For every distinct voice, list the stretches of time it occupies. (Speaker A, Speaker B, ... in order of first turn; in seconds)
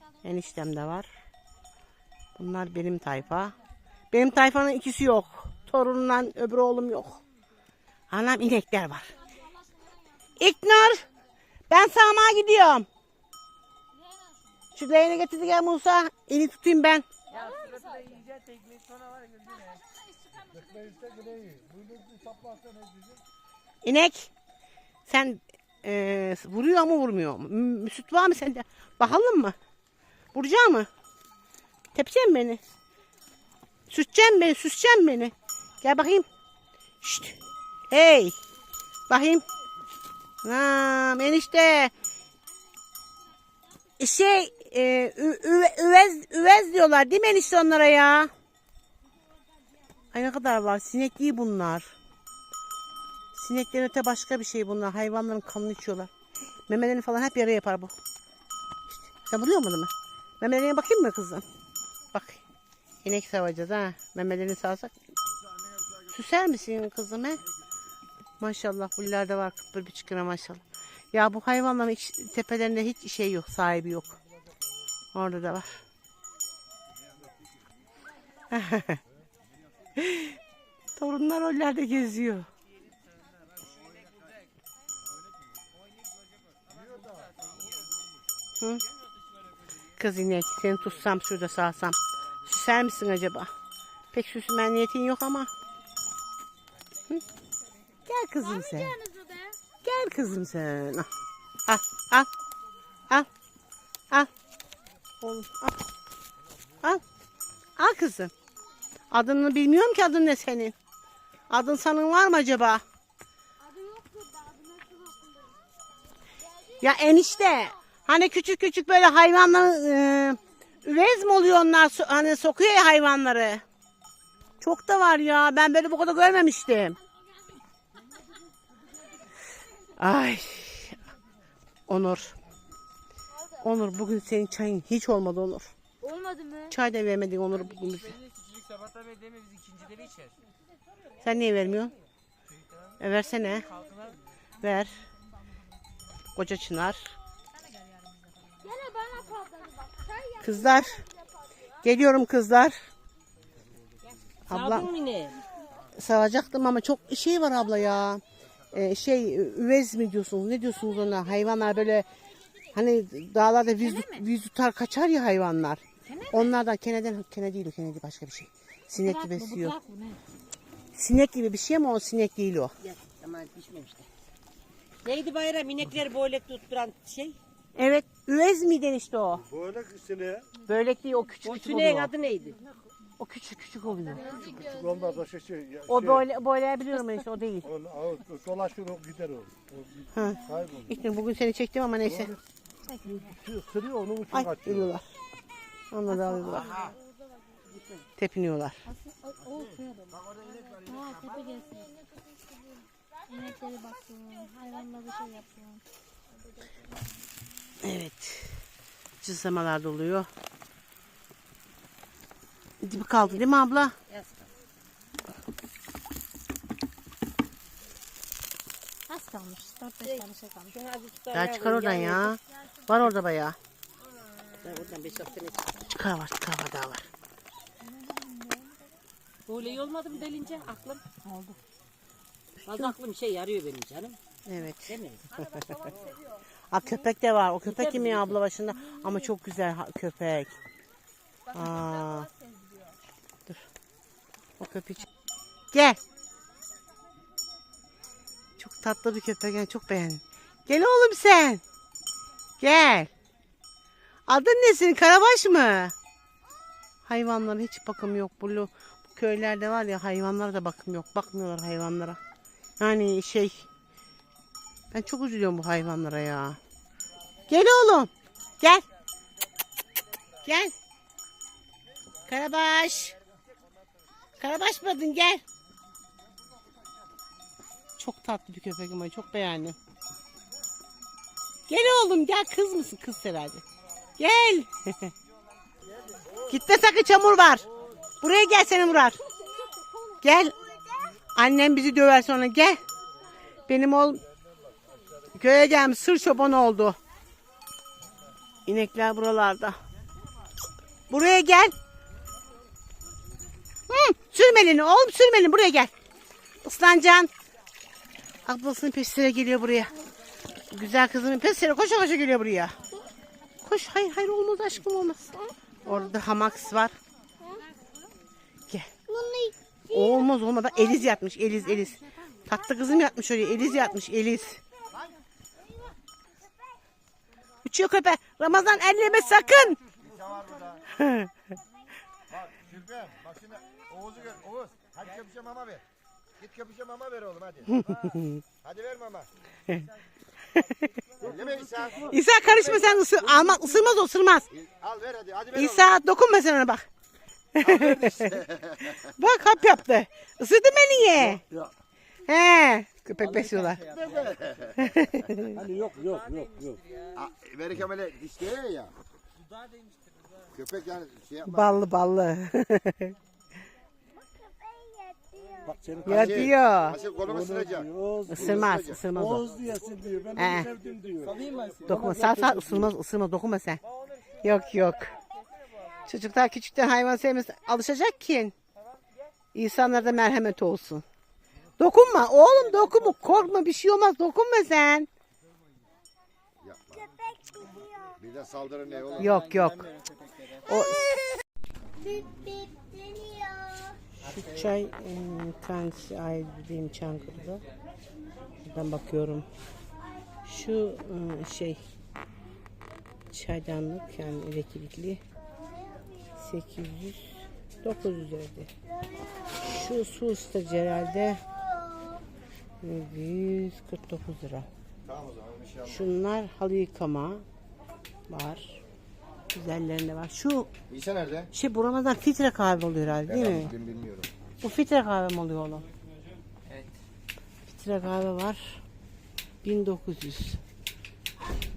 Speaker A: 0.2-1.1, 2.4-3.5, 4.1-7.2, 8.1-9.1, 10.4-11.1, 11.7-12.9, 14.8-17.1, 23.8-24.3, 25.1-29.5, 30.3-30.9, 31.9-32.6, 33.9-36.2, 37.0-37.4, 37.9-38.3, 39.1-39.4, 40.4-41.9, 44.0-48.3, 50.1-51.9, 53.3-56.1, 56.7-57.9, 58.9-61.4, 62.1-62.4, 63.0-65.0, 66.1-67.4, 68.4-70.6, 71.1-74.2, 75.1-75.8, 78.5-79.0, 80.0-80.4, 81.0-82.5, 90.0-93.5, 94.1-95.5, 98.1-99.0, 99.8-101.1, 101.7-102.3, 105.2-105.8, 107.8-108.3, 109.1-110.7, 111.5-112.8, 116.8-123.6, 124.6-127.0, 130.0-131.0, 131.9-132.4, 133.6-135.7, 136.7-138.2, 141.2-141.9, 143.0-143.7, 144.6-145.0, 146.3-147.1, 150.4-151.0, 151.8-152.7, 154.5-154.9, 155.9-162.1, 162.7-169.8, 170.9-172.7, 177.7-179.4, 180.7-182.1, 183.2-184.5, 185.8-187.7, 190.1-192.4, 194.3-195.0, 195.9-196.9, 198.2-198.8, 207.8-208.6, 209.2-210.3, 212.8-214.0, 221.3-223.6, 225.9-227.1, 234.4-235.9, 236.7-240.5, 241.5-242.3, 244.6-245.1, 245.7-246.0, 248.6-251.6, 252.6-253.1, 254.3-255.9, 257.1-262.2, 262.8-263.7, 264.9-266.6, 267.5-268.9, 270.4-270.7, 272.3-273.2, 274.4-275.4, 278.0-279.8, 281.7-283.6, 284.2-285.1, 286.5-287.7, 288.2-289.2, 290.2-290.6, 291.3-292.8, 293.7-294.2, 295.3-297.0, 298.7-299.8, 301.1-301.7, 303.9-305.9, 306.6-307.3, 308.4-309.9, 310.7-312.8, 313.6-316.9, 319.9-324.6, 327.6-329.8, 330.9-331.3, 337.8-338.4, 342.1-344.5, 345.5-346.9, 347.6-348.4, 348.9-351.4, 352.3-353.9, 354.8-355.6, 361.5-363.1, 366.1-367.0, 368.3-369.6, 370.4-370.8, 371.9-373.8, 374.4-375.1, 376.1-378.5, 379.5-381.1, 381.8-385.1, 389.2-389.9, 390.5-391.2, 394.1-397.6, 398.6-399.5, 400.4-401.8, 403.3-405.2, 406.4-408.7, 409.6-411.4, 412.8-414.7, 415.9-417.4, 418.3-418.8, 419.5-420.7, 421.5-423.7, 424.6-425.9, 427.6-428.8, 429.6-430.6
Speaker B: 17.4-18.2, 20.4-20.7, 98.7-99.6, 113.7-115.4, 136.0-136.6, 148.6-150.3, 163.9-164.2, 169.0-170.2, 184.2-185.2, 192.8-193.4, 196.5-196.8, 198.9-202.0, 203.3-205.8, 219.1-220.7, 228.1-228.7, 242.3-242.9, 289.5-289.9
Speaker C: 18.2-19.2, 138.3-140.3, 371.3-371.9
Speaker D: 20.8-23.0, 179.6-180.4, 185.2-185.8, 187.9-189.5, 193.6-194.2, 355.6-356.7, 365.7-366.0, 369.5-370.3, 370.8-371.3
Speaker E: 154.5-155.4, 172.8-174.1, 175.0-177.4, 181.4-182.6, 197.7-198.0, 214.1-214.4, 220.0-222.3, 224.6-225.8, 229.5-231.2, 232.6-234.2, 234.9-235.2, 237.7-238.4
Speaker F: 330.0-330.8, 332.3-335.8, 336.4-337.7, 338.6-339.3, 341.2-342.1, 344.5-346.0, 347.6-349.0, 353.9-354.9, 357.1-358.9, 360.5-361.8, 366.1-369.0, 386.6-387.1, 388.2-389.4, 415.1-416.0, 420.9-421.5, 423.3-424.3